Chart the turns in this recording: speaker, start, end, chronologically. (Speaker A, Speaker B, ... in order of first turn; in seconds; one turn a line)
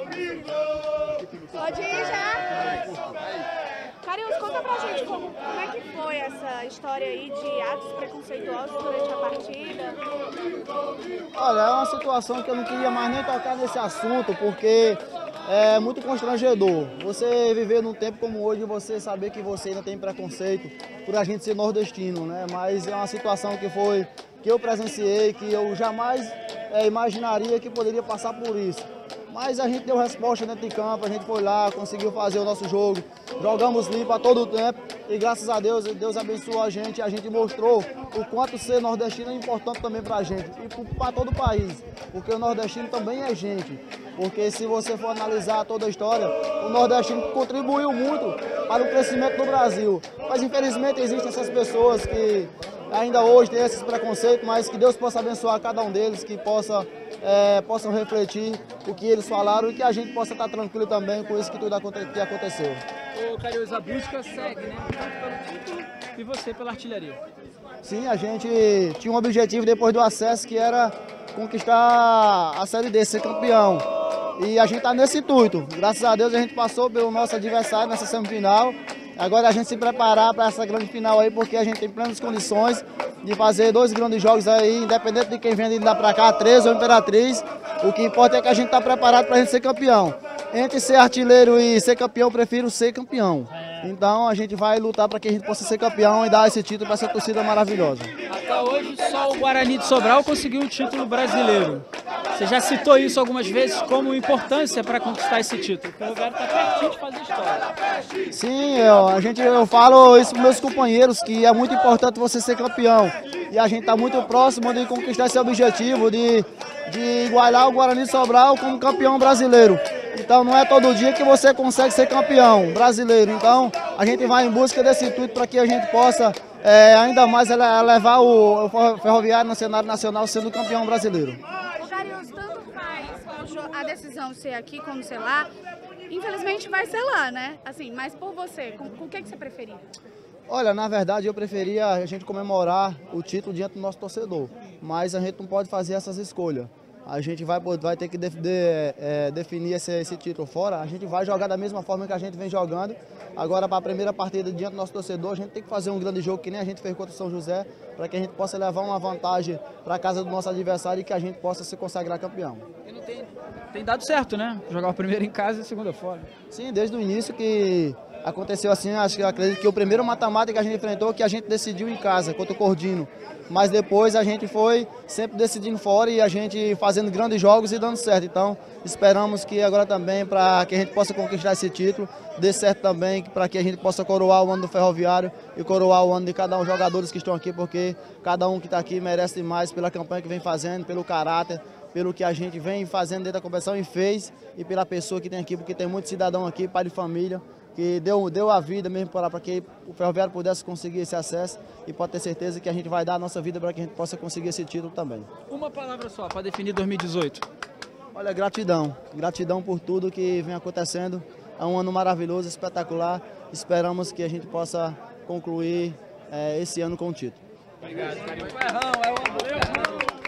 Speaker A: 1.5-2.9
Speaker A: 4.0-10.0
Speaker B: 11.3-62.8
Speaker C: 63.1-67.2
Speaker B: 67.8-73.8
Speaker B: 74.4-98.1
Speaker C: 98.3-107.7
Speaker B: 108.3-131.4
Speaker A: 131.8-135.5
Speaker A: 136.1-139.8
Speaker B: 140.5-162.6
Speaker C: 162.8-166.3
Speaker B: 166.5-205.3
Speaker C: 205.5-207.4
Speaker B: 208.1-217.4
Speaker C: 218.5-219.3